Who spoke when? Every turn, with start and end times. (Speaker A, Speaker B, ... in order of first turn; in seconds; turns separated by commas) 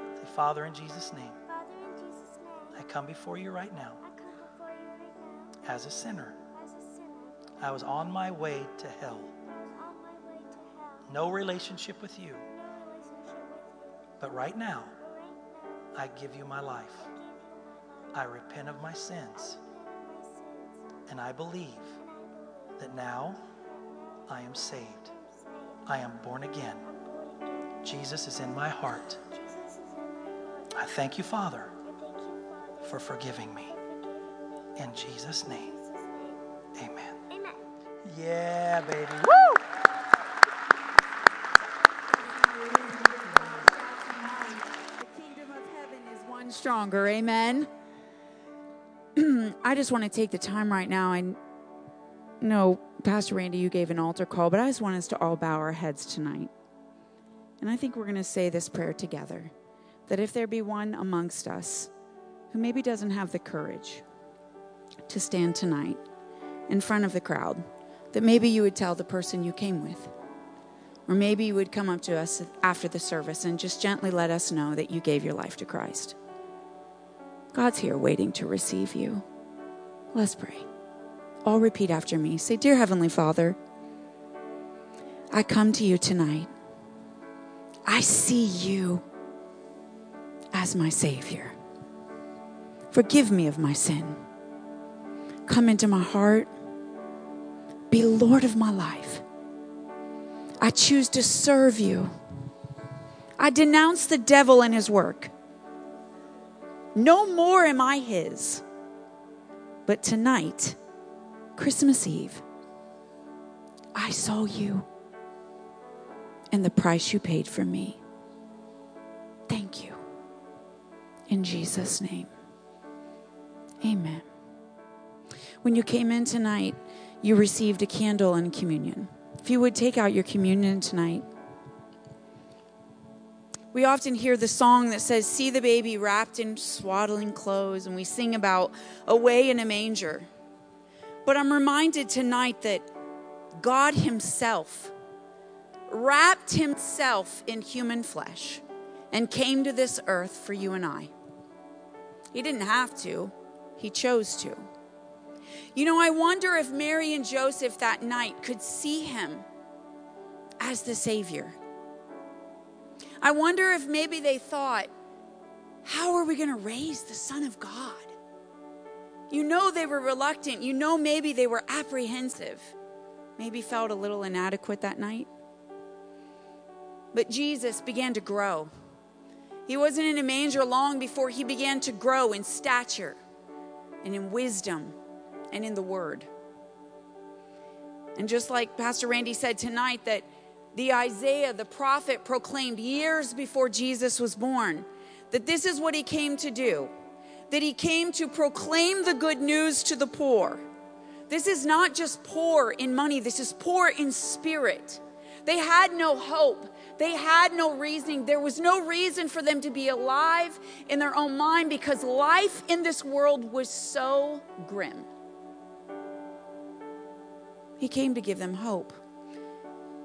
Speaker A: 0.2-1.4, Speaker B: 1.5-2.9, Speaker A: 2.8-4.0, Speaker B: 4.0-5.7, Speaker A: 5.7-6.4, Speaker B: 6.5-8.1, Speaker A: 7.6-9.3, Speaker B: 9.5-11.1, Speaker A: 11.1-12.4, Speaker B: 12.5-16.1, Speaker A: 14.2-14.9, Speaker A: 15.9-17.1, Speaker B: 17.0-18.4, Speaker A: 18.1-19.6, Speaker B: 19.4-20.9, Speaker A: 21.1-21.9, Speaker B: 22.0-26.3, Speaker A: 22.8-23.4, Speaker A: 24.3-25.1, Speaker A: 25.9-26.8, Speaker B: 26.9-27.8, Speaker A: 27.8-29.2, Speaker B: 28.9-36.4, Speaker A: 30.8-31.7, Speaker A: 32.9-33.7, Speaker A: 34.8-35.7, Speaker A: 36.8-37.2, Speaker B: 37.3-37.6, Speaker A: 38.1-39.6, Speaker C: 42.6-47.7, Speaker C: 49.1-51.4, Speaker C: 52.4-56.5, Speaker C: 57.6-59.5, Speaker C: 60.1-61.9, Speaker C: 62.5-64.0, Speaker C: 65.1-66.0, Speaker C: 66.7-70.1, Speaker C: 71.1-76.2, Speaker C: 77.5-79.2, Speaker C: 80.1-80.7, Speaker C: 81.5-83.6, Speaker C: 85.3-86.5, Speaker C: 87.9-89.0, Speaker C: 90.5-91.5, Speaker C: 92.9-94.2, Speaker C: 95.5-96.5, Speaker C: 97.9-99.2, Speaker C: 100.6-102.1, Speaker C: 103.4-105.3, Speaker C: 107.0-108.6, Speaker C: 109.9-110.8, Speaker C: 111.6-112.4, Speaker C: 114.0-114.9, Speaker C: 116.5-118.0, Speaker C: 119.5-120.0, Speaker C: 121.3-122.3, Speaker C: 123.8-124.3, Speaker C: 125.6-131.3, Speaker C: 133.7-140.3, Speaker C: 141.2-142.9, Speaker C: 143.6-144.9, Speaker C: 145.9-151.1, Speaker C: 152.3-154.7, Speaker C: 155.8-159.5, Speaker C: 160.6-161.6, Speaker C: 163.2-164.9, Speaker C: 165.8-168.1, Speaker C: 169.3-172.7, Speaker C: 173.4-175.3, Speaker C: 177.1-178.7, Speaker C: 179.7-183.2, Speaker C: 184.0-185.0, Speaker C: 185.5-186.3, Speaker C: 188.2-196.9, Speaker C: 197.5-200.6, Speaker C: 201.3-215.1, Speaker C: 217.8-219.0